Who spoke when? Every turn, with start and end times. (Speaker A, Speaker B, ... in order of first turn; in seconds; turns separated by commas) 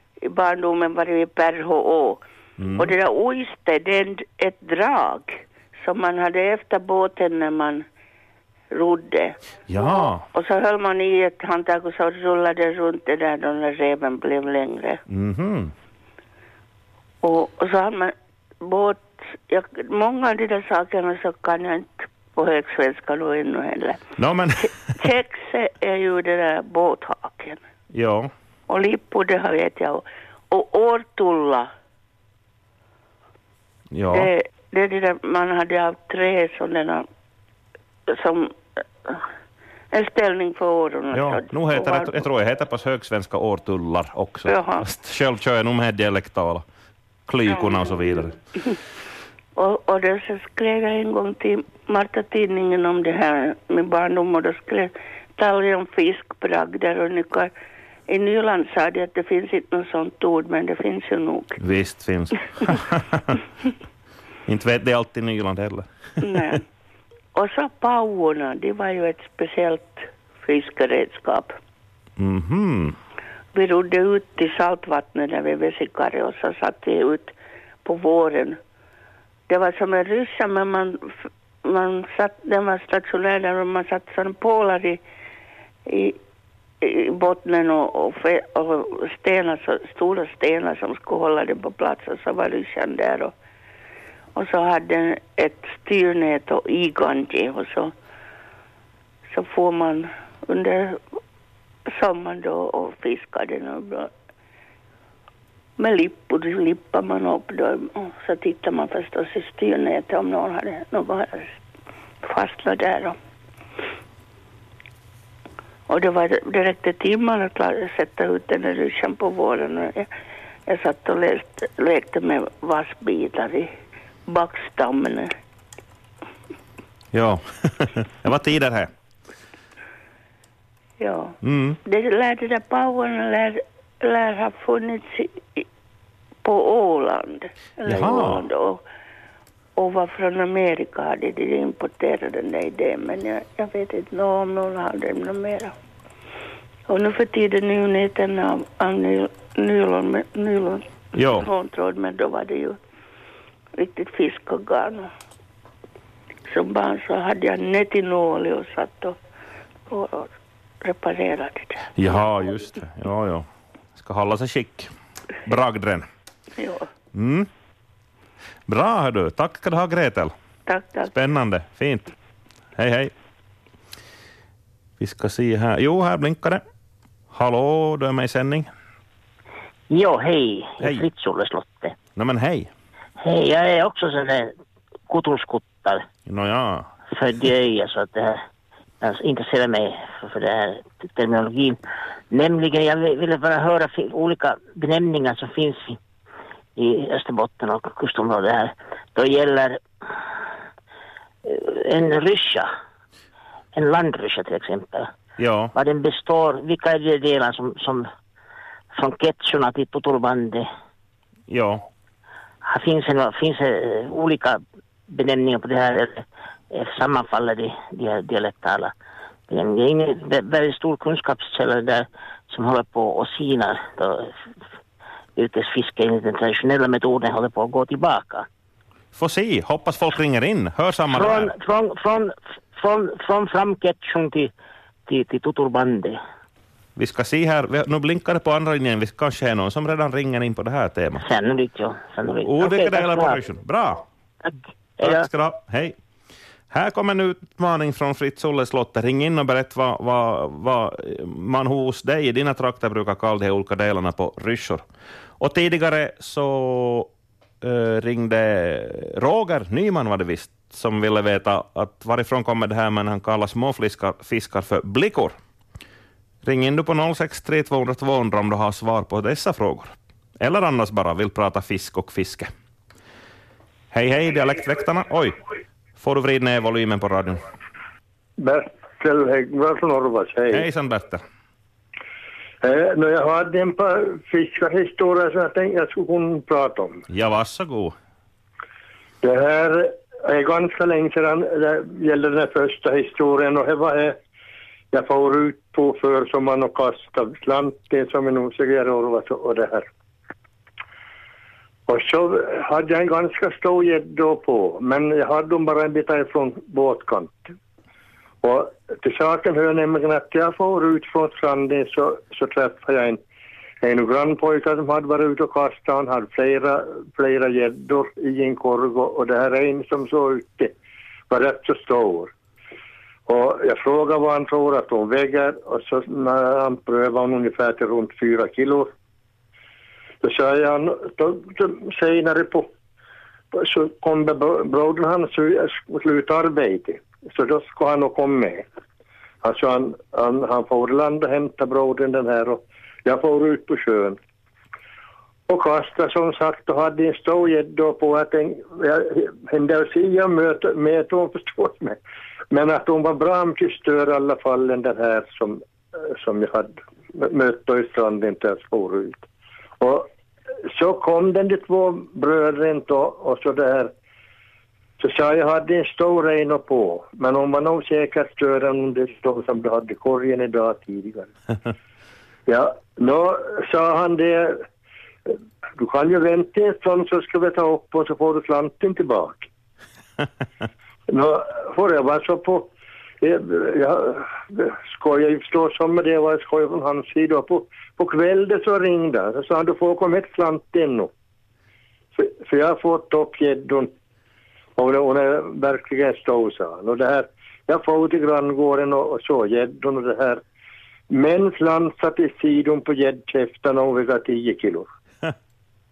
Speaker A: 0.2-2.2, Speaker B: 2.6-2.9, Speaker A: 2.8-7.8, Speaker A: 8.7-15.0, Speaker B: 9.7-10.2, Speaker B: 15.1-15.7, Speaker A: 17.2-24.0, Speaker B: 24.2-24.8, Speaker A: 25.0-27.6, Speaker B: 27.9-28.3, Speaker A: 28.7-31.7, Speaker B: 33.9-34.3, Speaker A: 34.1-37.1, Speaker A: 38.1-39.2, Speaker A: 39.9-42.2, Speaker B: 41.1-46.6, Speaker A: 44.5-44.9, Speaker B: 47.3-48.4, Speaker A: 47.5-47.9, Speaker A: 49.6-57.5, Speaker A: 58.1-61.6, Speaker B: 61.6-63.4, Speaker B: 64.5-65.9, Speaker A: 66.2-66.6, Speaker A: 67.3-71.6, Speaker B: 72.2-73.0, Speaker A: 73.5-78.6, Speaker A: 79.5-85.0, Speaker A: 85.9-86.2, Speaker A: 86.8-93.3, Speaker A: 94.3-97.9, Speaker A: 99.3-101.0, Speaker A: 101.9-104.1, Speaker A: 105.8-111.5, Speaker A: 112.2-113.2, Speaker A: 115.9-120.1, Speaker A: 120.7-123.7, Speaker A: 124.3-125.3, Speaker B: 127.1-128.9, Speaker A: 131.0-135.7, Speaker B: 131.4-131.8, Speaker A: 136.4-138.8, Speaker B: 137.9-138.4, Speaker A: 139.8-145.7, Speaker A: 146.9-152.8, Speaker B: 151.2-151.5, Speaker A: 153.8-155.1, Speaker A: 156.5-159.2, Speaker A: 159.9-160.3, Speaker A: 160.8-161.9, Speaker B: 162.0-163.5, Speaker B: 164.0-164.9, Speaker B: 165.5-166.1, Speaker A: 166.6-166.9, Speaker B: 167.1-167.5, Speaker B: 168.7-170.3, Speaker A: 170.7-171.1, Speaker B: 171.1-172.1, Speaker B: 172.8-173.1, Speaker B: 175.0-176.6, Speaker B: 177.3-178.7, Speaker C: 179.9-182.0, Speaker B: 182.2-182.7, Speaker C: 183.2-184.5, Speaker C: 185.1-186.1, Speaker B: 186.3-186.9, Speaker C: 187.1-188.4, Speaker C: 189.0-191.8, Speaker C: 192.3-196.0, Speaker C: 196.8-199.8, Speaker C: 201.4-202.7, Speaker C: 203.7-205.1, Speaker B: 205.4-205.7, Speaker C: 205.7-208.1, Speaker C: 209.0-210.7, Speaker B: 211.5-211.8, Speaker C: 212.6-218.9, Speaker C: 219.5-224.4, Speaker C: 225.4-228.5, Speaker B: 229.1-231.5, Speaker C: 231.1-234.5, Speaker C: 235.1-236.2, Speaker B: 237.0-241.2, Speaker C: 241.2-243.4, Speaker B: 242.4-244.0, Speaker C: 244.4-245.3, Speaker B: 245.0-245.9, Speaker B: 246.7-254.8, Speaker B: 255.4-257.1, Speaker B: 257.6-265.4, Speaker B: 266.4-272.5, Speaker B: 273.9-275.4, Speaker B: 276.0-277.4, Speaker D: 278.4-280.7, Speaker B: 280.5-281.2, Speaker D: 282.6-287.1, Speaker B: 287.1-287.9, Speaker D: 289.2-294.2, Speaker D: 294.9-299.9, Speaker D: 301.9-307.5, Speaker D: 308.4-313.2, Speaker D: 313.8-320.7, Speaker D: 321.3-322.3, Speaker D: 323.3-328.9, Speaker D: 330.2-332.7, Speaker D: 333.5-338.6, Speaker D: 339.4-344.2, Speaker D: 345.5-352.0, Speaker D: 352.5-359.2, Speaker D: 359.8-360.1, Speaker D: 360.7-363.9, Speaker D: 365.0-371.3, Speaker D: 372.5-374.6, Speaker D: 375.3-379.5, Speaker D: 381.1-382.7, Speaker D: 383.2-391.1, Speaker D: 392.2-393.9, Speaker D: 394.8-400.4, Speaker D: 401.1-404.9